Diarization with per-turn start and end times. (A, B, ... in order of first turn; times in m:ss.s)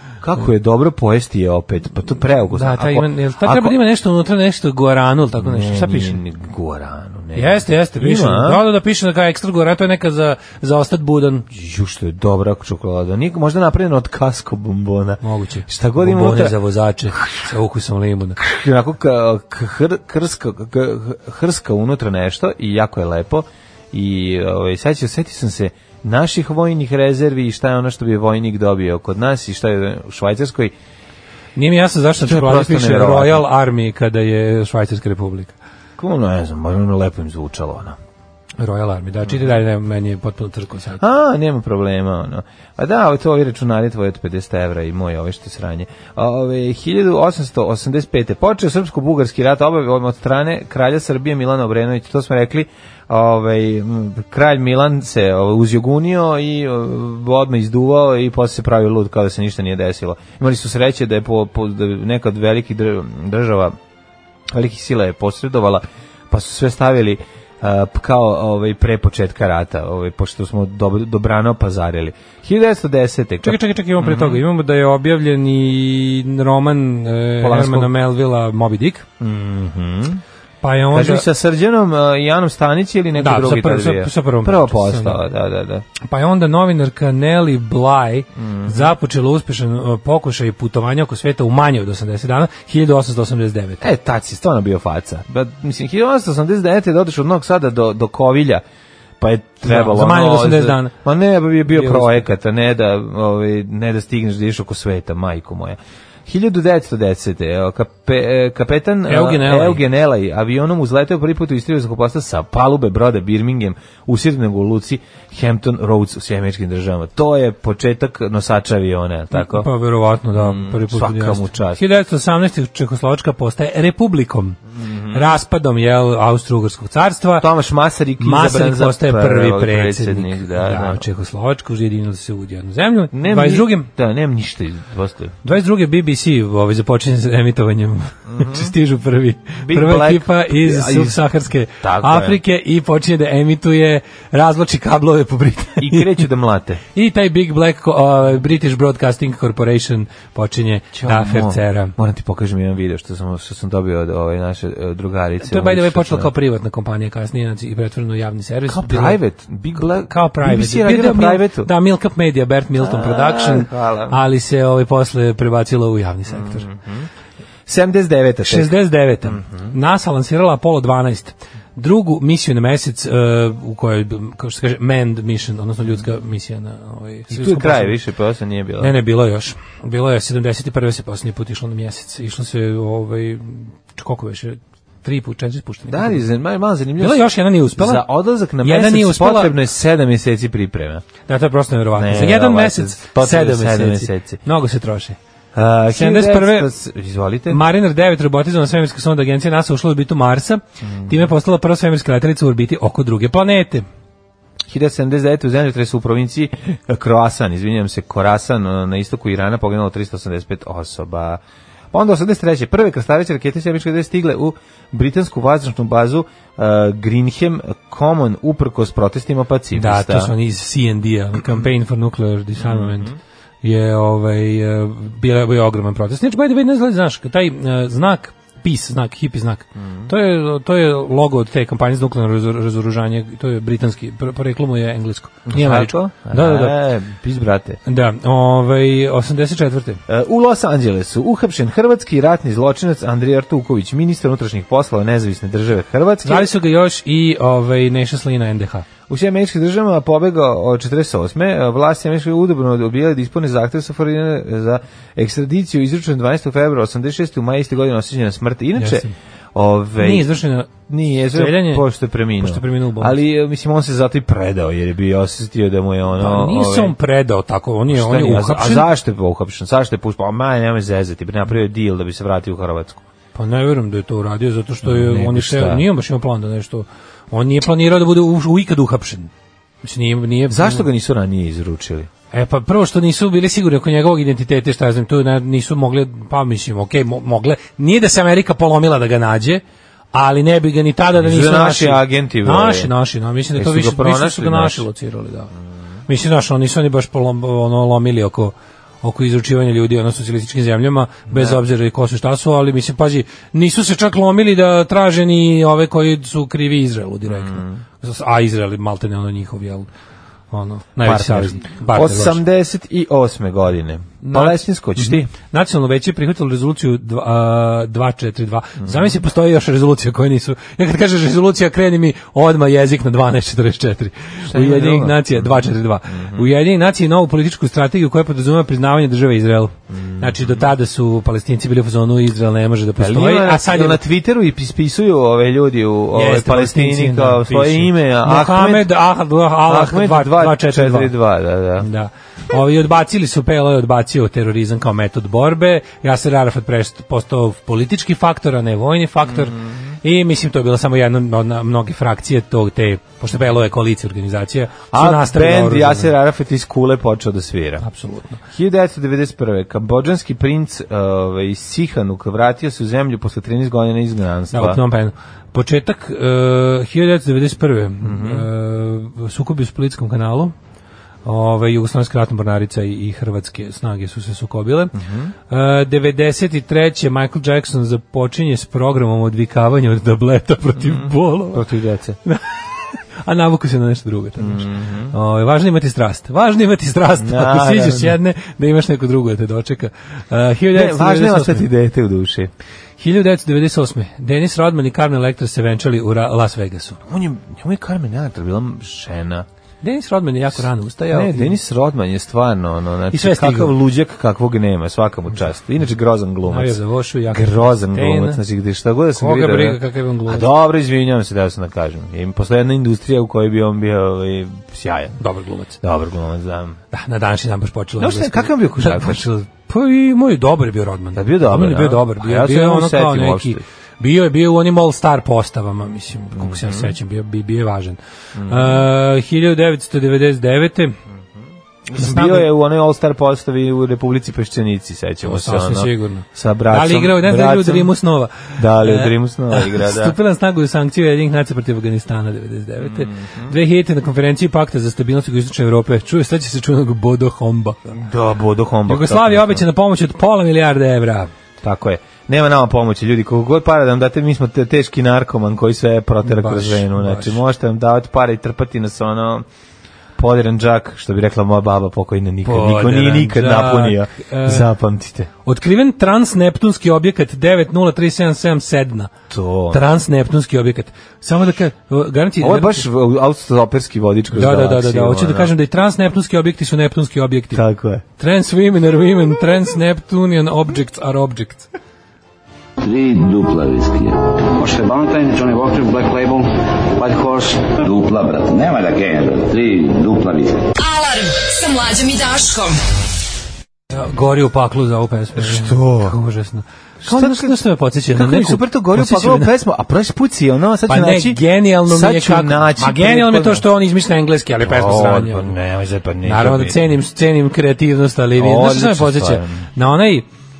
0:00.2-0:03.8 A
0:02.5-0:06.2 B
0:05.4-0:08.6 A
0:07.3-0:11.5 B
0:11.5-0:16.6 A
0:15.2-0:18.4 B
0:17.1-0:17.4 A
0:18.4-0:30.7 A
0:31.6-0:35.5 B
0:32.2-0:33.4 A
0:36.0-0:38.0 A
0:38.6-0:41.0 B
0:41.0-1:03.8 A
1:04.5-1:14.4 A
1:13.4-1:19.0 B
1:17.4-1:17.9 A
1:19.2-1:20.2 A
1:20.6-1:21.2 B
1:20.9-1:25.8 A
1:23.2-1:25.2 B
1:26.0-1:33.8 B
1:28.4-1:28.9 A
1:33.8-1:38.6 A
1:39.2-1:59.7 A
1:39.6-1:40.9 B
1:41.7-1:42.2 B
1:49.1-1:49.8 B
1:59.3-2:04.6 B
2:00.3-2:01.8 A
2:04.8-2:05.2 A
2:05.1-2:07.5 B
2:07.4-2:11.0 A
2:08.2-2:13.9 B
2:13.1-2:15.4 A
2:15.4-2:26.2 B
2:18.3-2:18.7 A
2:19.6-2:21.2 A
2:21.8-2:22.4 A
2:25.8-2:26.8 A
2:26.9-2:31.9 B
2:30.9-2:36.3 A
2:35.4-2:39.2 B
2:38.7-2:41.7 A
2:39.8-2:46.7 B
2:42.8-2:44.2 A
2:46.3-2:47.1 A
2:47.7-2:49.7 A
2:48.4-2:57.9 B
2:57.3-2:58.9 A
2:58.8-3:06.2 B
3:05.9-3:11.0 A
3:07.0-3:08.1 B
3:08.6-3:09.5 B
3:11.3-3:15.2 B
3:11.9-3:14.4 A
3:15.5-3:17.6 A
3:15.9-3:16.7 B
3:17.5-3:23.8 B
3:20.8-3:21.2 A
3:24.7-3:31.4 A
3:31.9-3:40.3 A
3:39.7-3:56.8 B
3:42.6-3:43.2 A
3:49.8-3:50.1 A
3:55.5-3:57.8 A
3:57.8-4:00.0 B
4:00.1-4:06.5 A
4:06.2-4:08.8 B
4:09.1-4:20.3 A
4:18.8-4:19.1 B
4:20.0-4:20.7 B
4:20.9-4:27.0 A
4:21.3-4:23.2 B
4:26.2-4:28.9 B
4:27.9-4:33.0 A
4:33.3-4:39.3 B
4:34.8-4:35.8 A
4:39.8-4:40.9 B
4:40.5-4:42.1 A
4:42.3-4:49.6 B
4:50.1-4:55.5 B
4:51.2-4:52.9 A
4:53.5-4:54.8 A
4:56.1-5:09.9 B
5:01.3-5:01.6 A
5:07.3-5:07.8 A
5:10.5-5:12.4 B
5:11.0-5:15.3 A
5:14.2-5:34.0 B
5:18.8-5:19.1 A
5:24.5-5:26.5 A
5:29.9-5:30.7 A
5:33.0-5:38.9 A
5:36.1-5:41.1 B
5:39.6-5:41.9 A
5:41.8-5:56.1 B
5:49.3-5:49.9 A
5:54.9-5:57.8 A
5:57.8-5:58.4 B
5:58.5-6:04.8 A
6:04.5-6:10.5 B
6:08.0-6:08.5 A
6:11.2-6:15.0 B
6:15.0-6:15.3 A
6:15.5-6:21.6 B
6:20.8-6:22.2 A
6:22.2-6:31.7 B
6:24.4-6:25.1 A
6:27.2-6:28.2 A
6:30.7-6:32.5 A
6:33.0-6:37.0 B
6:37.0-6:39.5 A
6:39.8-6:41.6 B
6:41.1-6:46.8 A
6:43.1-6:43.7 B
6:46.5-6:48.4 B
6:47.3-6:55.2 A
6:49.2-6:50.5 B
6:55.2-6:55.8 B
6:55.8-6:56.8 A
6:56.9-7:11.0 B
6:58.0-6:59.2 A
7:01.1-7:03.6 A
7:06.3-7:06.9 A
7:08.4-7:08.9 A
7:11.9-7:17.9 A
7:12.0-7:12.5 B
7:15.2-7:28.0 B
7:18.6-7:20.2 A
7:22.8-7:23.5 A
7:27.9-7:29.6 A
7:28.9-7:31.3 B
7:31.6-7:39.4 A
7:36.2-7:37.4 B
7:40.2-7:45.3 A
7:42.4-7:44.7 B
7:45.4-7:49.1 B
7:49.3-7:49.8 A
7:49.7-7:52.8 B
7:52.4-7:55.5 A
7:54.3-7:57.6 B
7:57.5-7:58.0 A
7:58.2-8:01.7 B
8:02.8-8:10.6 C
8:10.8-8:12.8 D
8:13.9-8:19.5 B
8:15.4-8:16.2 A
8:17.0-8:17.6 A
8:18.1-8:23.6 A
8:20.9-8:25.5 B
8:24.6-8:26.8 A
8:26.2-8:30.2 B
8:28.4-8:29.6 A